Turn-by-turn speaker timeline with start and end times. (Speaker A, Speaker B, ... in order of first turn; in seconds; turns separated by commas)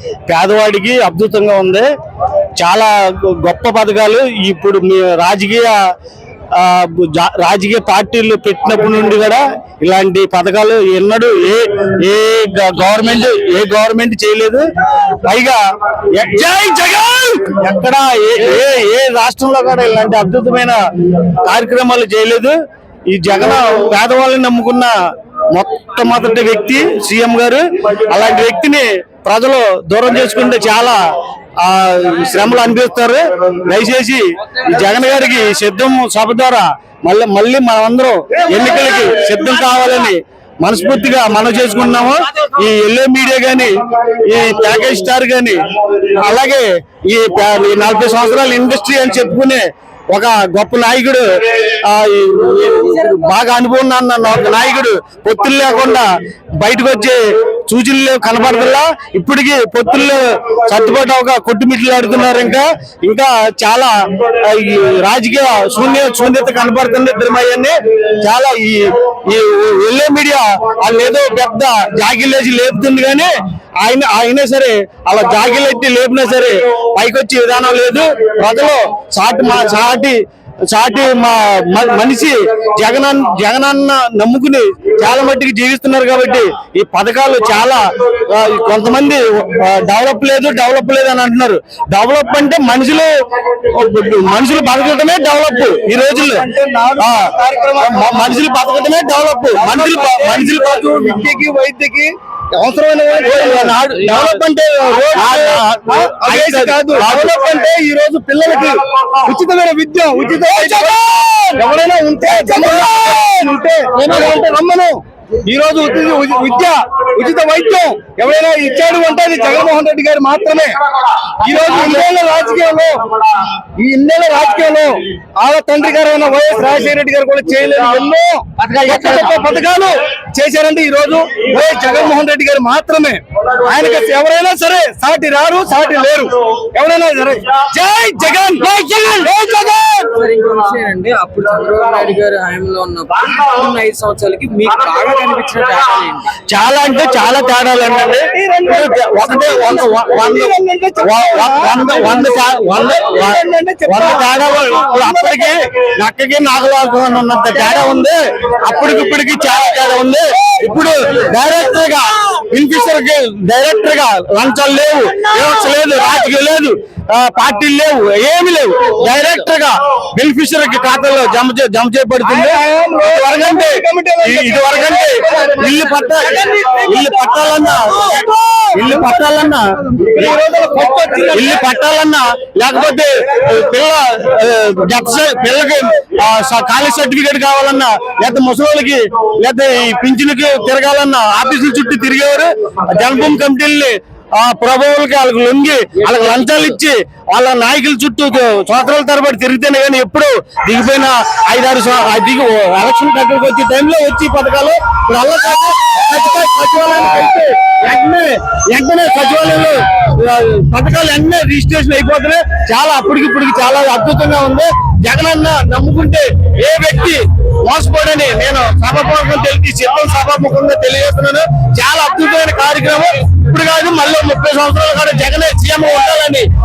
Speaker A: 0.3-1.8, Speaker A: 2.6-5.7, Speaker A: 6.5-15.6, Speaker A: 16.1-22.5, Speaker A: 23.1-24.9, Speaker A: 25.5-31.0, Speaker A: 31.6-56.0, Speaker A: 56.6-73.3, Speaker A: 73.8-80.2, Speaker A: 80.7-96.5, Speaker B: 95.9-98.4, Speaker A: 97.0-101.0, Speaker B: 99.5-104.0, Speaker A: 103.2-107.7, Speaker B: 105.1-120.7, Speaker A: 110.5-111.0, Speaker A: 112.2-113.0, Speaker A: 114.0-114.8, Speaker B: 121.4-123.0, Speaker A: 121.5-121.9, Speaker B: 123.8-140.1, Speaker A: 128.6-129.3, Speaker C: 140.1-146.3, Speaker A: 146.5-150.5, Speaker B: 148.3-155.5, Speaker A: 151.0-180.4, Speaker B: 160.3-160.8, Speaker B: 172.2-177.1, Speaker B: 177.8-179.0, Speaker B: 179.9-181.7, Speaker A: 181.3-226.4, Speaker C: 196.0-196.8